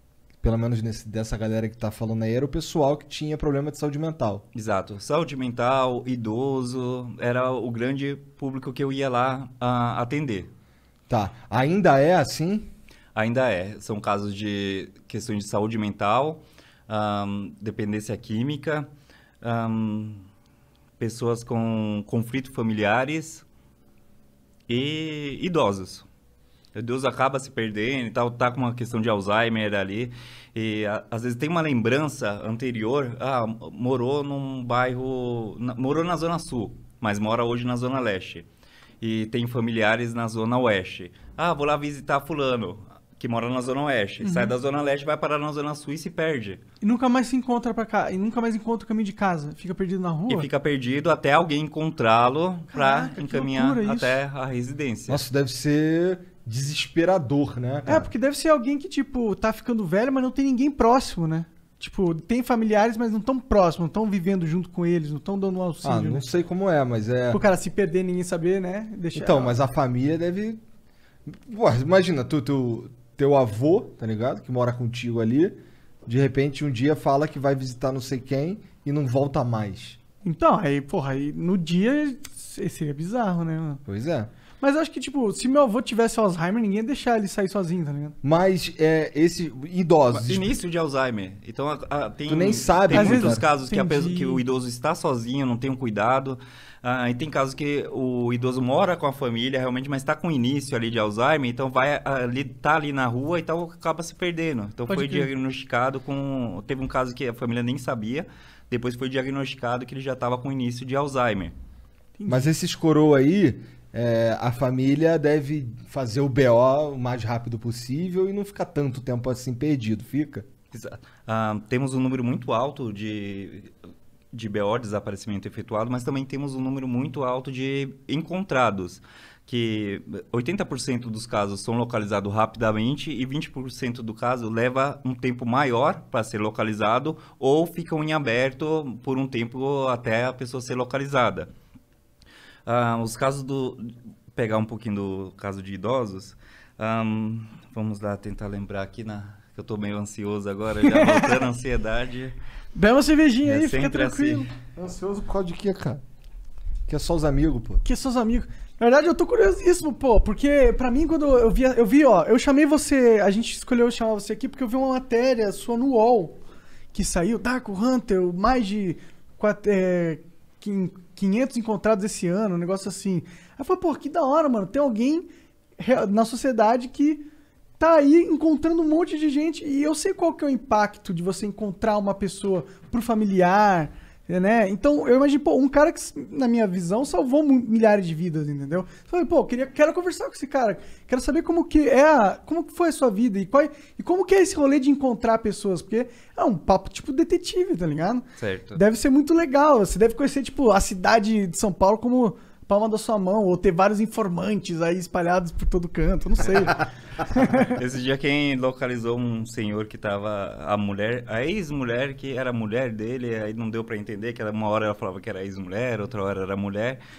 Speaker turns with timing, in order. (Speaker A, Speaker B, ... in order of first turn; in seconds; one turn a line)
Speaker A: 0.4-4.4
Speaker B: 4.5-10.5
Speaker A: 11.1-12.7
Speaker B: 13.1-18.9
Speaker B: 19.4-20.2
Speaker B: 21.0-23.4
Speaker B: 24.7-26.1
Speaker B: 26.7-38.5
Speaker B: 39.0-46.6
Speaker C: 44.2-44.5
Speaker C: 46.8-50.5
Speaker B: 50.3-55.2
Speaker C: 52.7-54.2
Speaker A: 55.1-58.1
Speaker C: 57.8-66.3
Speaker A: 65.8-67.4
Speaker C: 67.3-69.5
Speaker A: 69.1-70.6
Speaker A: 71.3-80.0
Speaker C: 80.2-83.8
Speaker A: 83.9-84.3
Speaker C: 84.6-88.2
Speaker A: 88.2-90.5
Speaker B: 90.1-111.5
Speaker A: 92.3-93.5
Speaker C: 92.9-94.4
Speaker C: 104.9-105.3
Speaker C: 112.2-112.5
Speaker A: 112.3-120.5
Speaker B: 120.7-123.7
Speaker B: 124.3-141.5
Speaker B: 142.7-152.3
Speaker C: 150.8-151.4
Speaker C: 152.7-154.5
Speaker B: 153.4-154.5
Speaker A: 154.8-156.0
Speaker A: 156.9-157.8
Speaker C: 157.8-166.4
Speaker C: 166.9-175.2
Speaker C: 175.8-177.2
Speaker C: 177.8-207.8
Speaker B: 198.4-198.8
Speaker B: 207.7-217.0